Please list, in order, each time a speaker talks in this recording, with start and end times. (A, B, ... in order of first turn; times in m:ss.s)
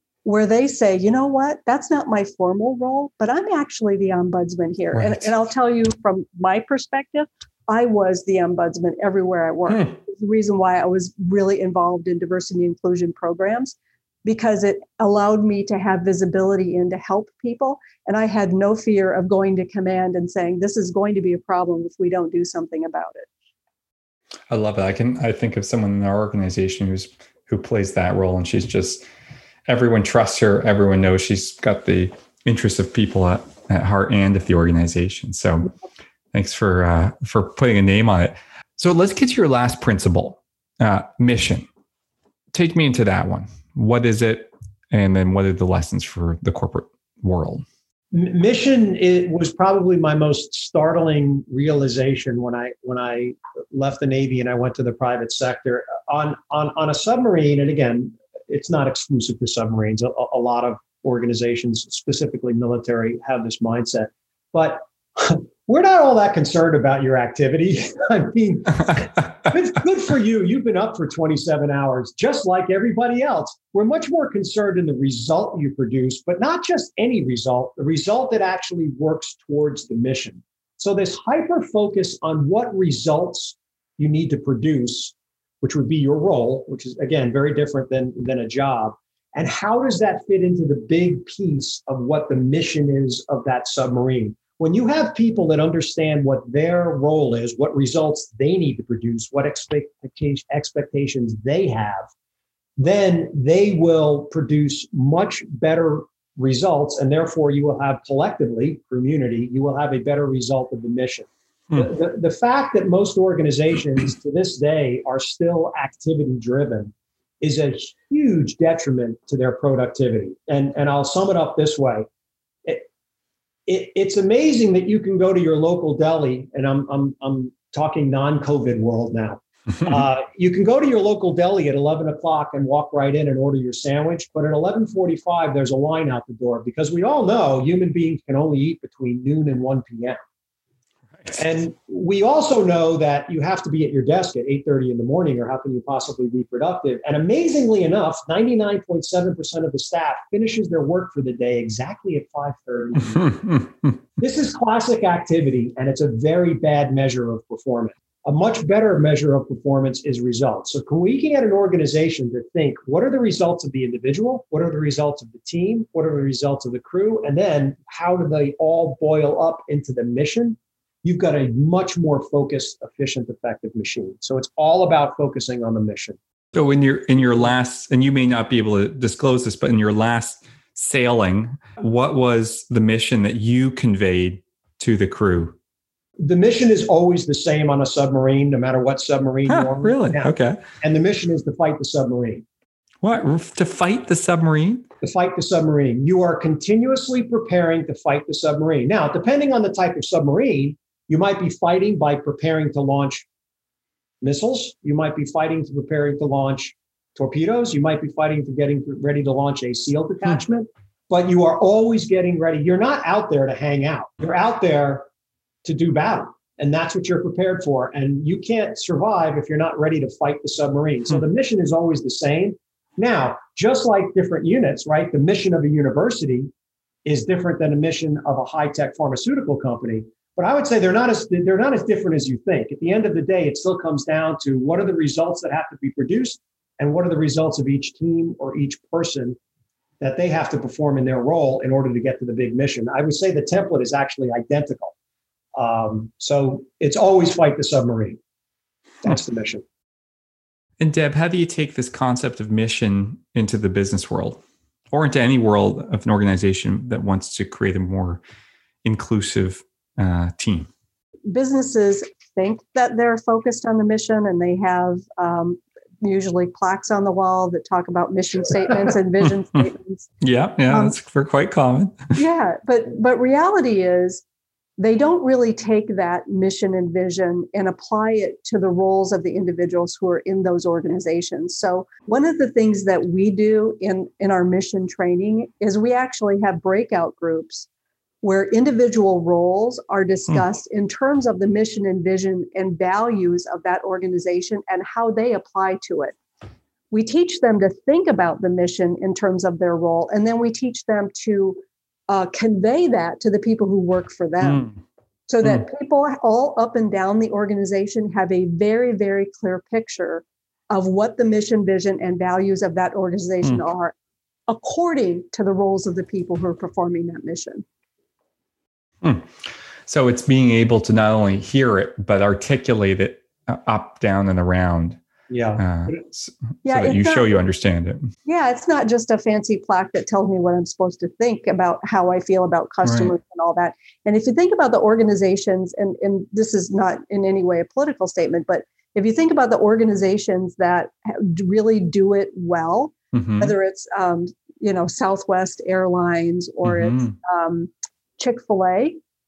0:00.2-0:23.3 A
0:05.0-0:05.2 B
0:24.5-0:29.0 B
0:29.7-0:35.7 B
0:36.3-0:41.7 B
0:42.5-0:47.6 B
0:48.1-1:42.1 C
1:42.8-2:02.0 C
2:03.7-2:20.2 C
2:21.3-2:33.6 C
2:34.2-2:56.2 C
2:56.5-3:05.6 B
3:06.2-3:12.4 C
3:09.5-3:10.6 B
3:13.0-3:14.9 B
3:15.0-3:23.2 C
3:24.2-3:35.0 C
3:35.6-3:46.5 C
3:47.0-3:59.4 C
4:00.0-4:04.9 C
4:05.6-4:08.2 C
4:09.0-4:09.6 C
4:10.8-4:18.2 B
4:18.8-4:20.7 B
4:21.3-4:30.1 A
4:30.2-4:32.2 B
4:30.7-4:30.9 A
4:32.2-4:34.2 A
4:34.8-4:47.7 A
4:48.2-4:56.1 A
4:56.9-5:04.7 A
5:04.4-5:04.7 B
5:05.3-5:13.9 A
5:14.5-5:17.6 A
5:19.0-5:19.3 B
5:19.8-5:25.0 B
5:25.3-5:26.0 C
5:25.6-5:28.1 B
5:26.6-5:27.3 A
5:28.2-5:49.0 A
5:32.8-5:33.1 B
5:43.1-5:43.5 B
5:46.6-5:47.1 B